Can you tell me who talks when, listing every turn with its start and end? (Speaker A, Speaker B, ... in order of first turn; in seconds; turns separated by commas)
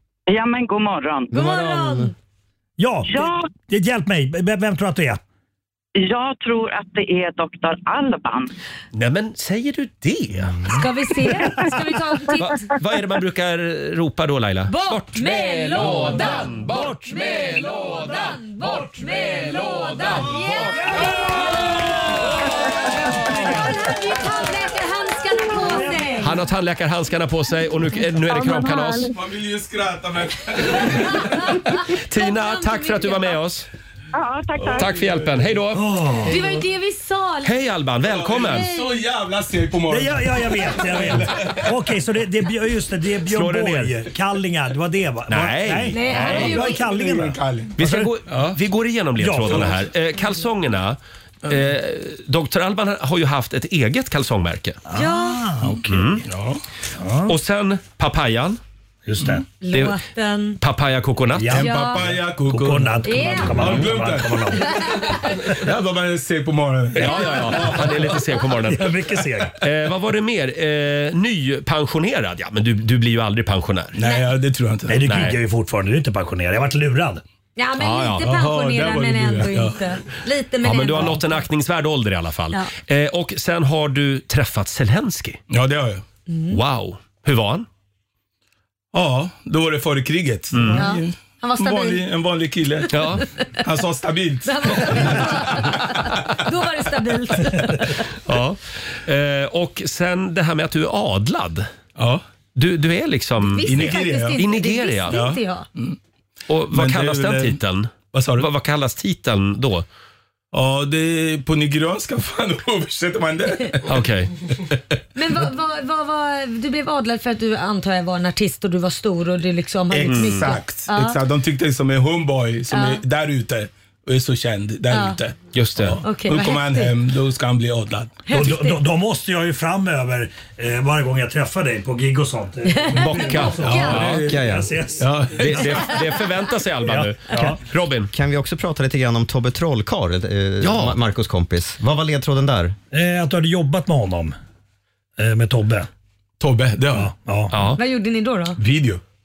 Speaker A: 0.3-1.4, Speaker B: 1.3-2.1, Speaker C: 1.3-2.1, Speaker D: 2.8-5.2, Speaker A: 3.0-3.5, Speaker A: 6.0-8.5, Speaker E: 8.9-10.6, Speaker B: 10.7-12.7, Speaker E: 12.4-21.0, Speaker B: 14.7-21.9, Speaker D: 16.6-18.1, Speaker D: 20.6-22.3, Speaker D: 22.9-23.8, Speaker B: 22.9-26.3, Speaker D: 25.6-26.3, Speaker E: 26.2-29.1, Speaker F: 29.0-31.6, Speaker B: 31.1-33.4, Speaker E: 31.8-33.7, Speaker A: 34.1-34.9, Speaker E: 34.7-35.9, Speaker D: 35.7-36.4, Speaker B: 36.2-37.5, Speaker E: 37.4-38.7, Speaker F: 38.0-41.8, Speaker B: 38.4-39.0, Speaker D: 39.9-48.1, Speaker E: 43.2-44.0, Speaker E: 45.3-46.6, Speaker B: 45.9-46.8, Speaker F: 46.1-47.7, Speaker E: 47.8-54.8, Speaker F: 48.3-48.5, Speaker D: 49.2-49.8, Speaker F: 49.4-49.7, Speaker D: 54.9-56.2, Speaker B: 54.9-55.5, Speaker E: 55.9-56.2, Speaker F: 56.2-56.6, Speaker D: 57.0-57.3, Speaker E: 57.2-58.6, Speaker D: 59.0-59.4, Speaker B: 59.6-60.6, Speaker E: 59.7-60.0, Speaker E: 60.6-61.6, Speaker D: 61.3-65.4, Speaker F: 61.5-64.5, Speaker B: 61.5-62.0, Speaker B: 63.0-63.7, Speaker F: 65.2-68.2, Speaker E: 66.9-69.0, Speaker D: 68.7-69.6, Speaker E: 69.6-74.0, Speaker F: 73.9-75.2, Speaker B: 74.0-74.3, Speaker D: 74.9-77.2, Speaker E: 75.0-75.4, Speaker B: 77.5-81.4, Speaker E: 77.8-78.3, Speaker F: 78.2-79.9, Speaker E: 80.6-85.4, Speaker F: 85.5-86.0, Speaker B: 86.3-86.6, Speaker E: 86.5-87.7, Speaker F: 88.9-93.0, Speaker E: 90.5-90.9, Speaker B: 90.8-92.0, Speaker E: 92.9-93.2, Speaker F: 93.6-96.1, Speaker B: 94.4-98.0, Speaker E: 98.3-101.7, Speaker F: 102.0-102.2, Speaker E: 102.5-105.2, Speaker B: 103.4-105.7, Speaker F: 103.6-104.5, Speaker F: 105.1-106.0, Speaker E: 106.5-109.8, Speaker F: 106.7-108.5, Speaker F: 110.5-114.0, Speaker E: 113.8-114.3, Speaker B: 115.2-121.2, Speaker F: 119.9-128.3, Speaker E: 120.0-120.6, Speaker B: 122.7-123.0, Speaker B: 124.9-125.2, Speaker E: 125.5-126.0, Speaker B: 126.0-126.9, Speaker B: 128.3-128.8, Speaker D: 128.3-136.0, Speaker B: 132.7-134.1, Speaker E: 132.9-134.3, Speaker F: 133.6-135.8, Speaker C: 134.1-134.7, Speaker E: 135.3-138.1, Speaker D: 136.8-137.6, Speaker C: 138.1-142.8, Speaker E: 140.6-140.9, Speaker D: 142.9-144.3, Speaker D: 145.2-145.9, Speaker F: 146.4-147.1, Speaker D: 146.9-147.5, Speaker E: 147.5-147.8, Speaker B: 147.8-148.6, Speaker F: 148.6-149.0